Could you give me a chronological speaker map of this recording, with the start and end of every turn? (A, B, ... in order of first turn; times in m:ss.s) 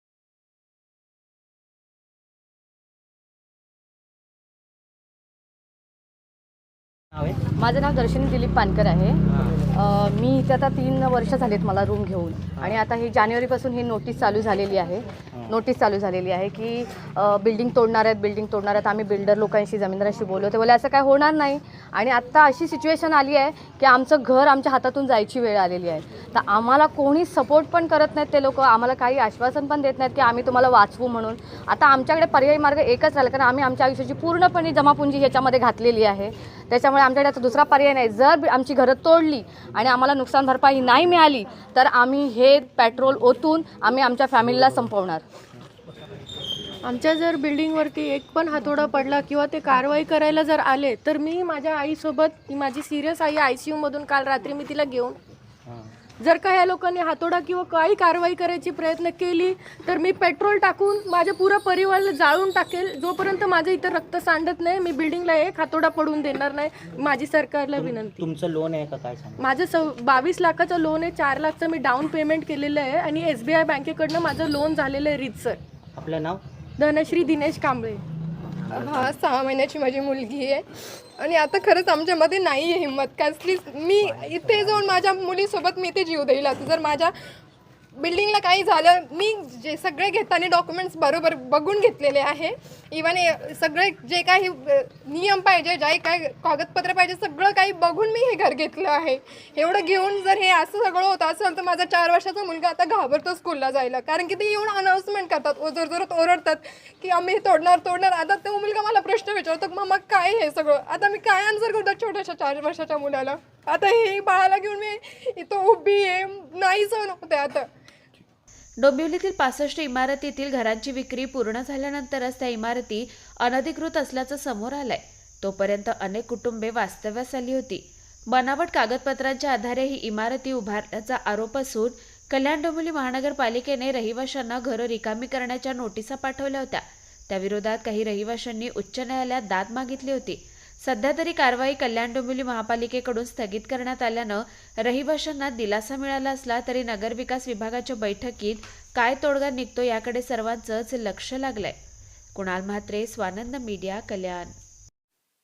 0:07.1-0:07.4 A
0:07.6-0:45.2 B
0:09.3-0:09.6 A
0:12.6-0:12.9 A
0:15.3-0:15.6 A
0:46.8-0:55.2 C
0:56.2-1:08.2 C
1:07.8-1:09.5 A
1:09.4-1:15.6 C
1:16.0-1:16.4 A
1:16.8-1:18.0 C
1:18.7-1:20.6 D
1:21.2-1:27.1 D
1:24.1-1:25.0 A
1:28.0-1:57.7 D
1:58.8-2:31.8 E
2:32.3-2:34.5 E